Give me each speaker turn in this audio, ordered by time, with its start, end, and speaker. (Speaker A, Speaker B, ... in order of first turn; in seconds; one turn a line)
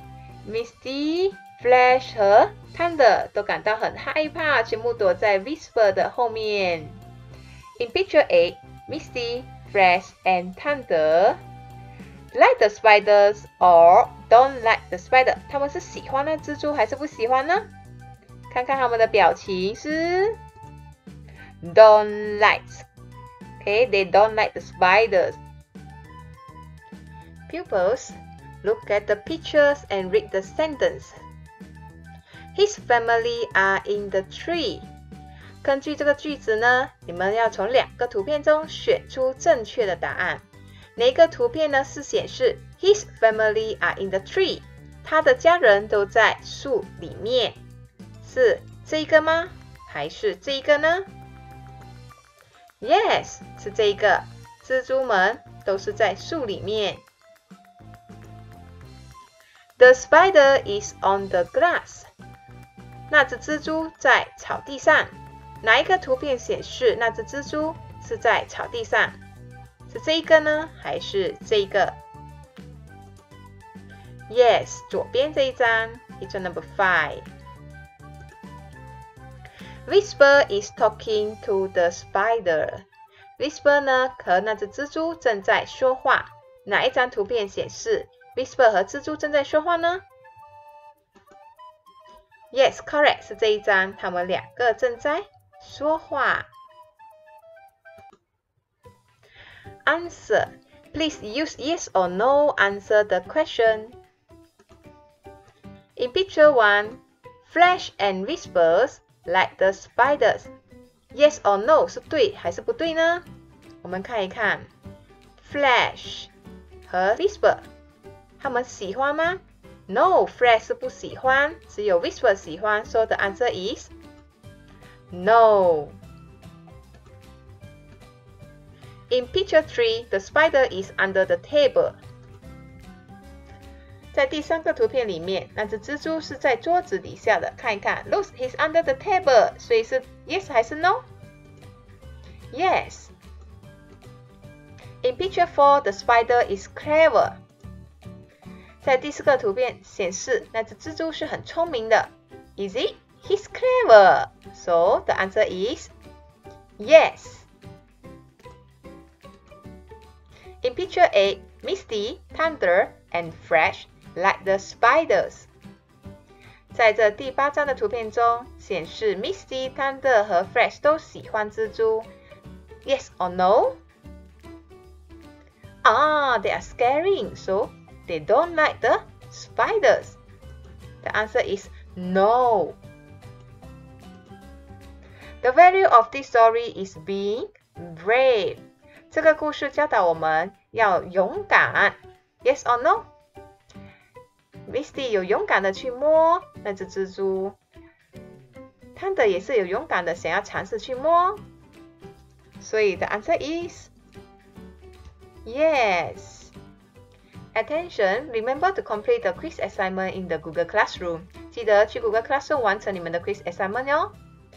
Speaker A: 0.4-7.0
Speaker A: 7.8-11.4
Speaker A: 12.3-17.7
Speaker A: 18.5-20.4
Speaker A: 21.6-22.9
Speaker A: 23.6-25.4
Speaker A: 27.5-31.2
Speaker A: 32.5-34.9
Speaker A: 35.6-40.4
Speaker A: 41.0-47.6
Speaker A: 48.2-51.1
Speaker A: 52.8-57.0
Speaker A: 59.8-62.1
Speaker A: 63.1-69.2
Speaker A: 69.9-72.0
Speaker A: 74.3-77.3
Speaker A: 79.9-82.8
Speaker A: 83.4-90.0
Speaker A: 92.5-96.5
Speaker A: 99.8-104.0
Speaker A: 106.0-110.5
Speaker A: 111.1-113.3
Speaker A: 113.8-114.7
Speaker A: 115.4-116.3
Speaker A: 116.9-117.7
Speaker A: 118.4-123.9
Speaker A: 125.1-126.0
Speaker A: 129.1-132.0
Speaker A: 134.1-141.1
Speaker A: 142.5-143.1
Speaker A: 145.0-147.4
Speaker A: 148.8-155.9
Speaker A: 156.8-157.5
Speaker A: 160.6-165.5
Speaker A: 166.7-172.1
Speaker A: 172.8-173.8
Speaker A: 175.8-180.2
Speaker A: 181.0-182.8
Speaker A: 185.4-193.1
Speaker A: 194.7-197.6
Speaker A: 198.9-201.4
Speaker A: 202.6-203.9
Speaker A: 205.4-206.5
Speaker A: 207.5-214.2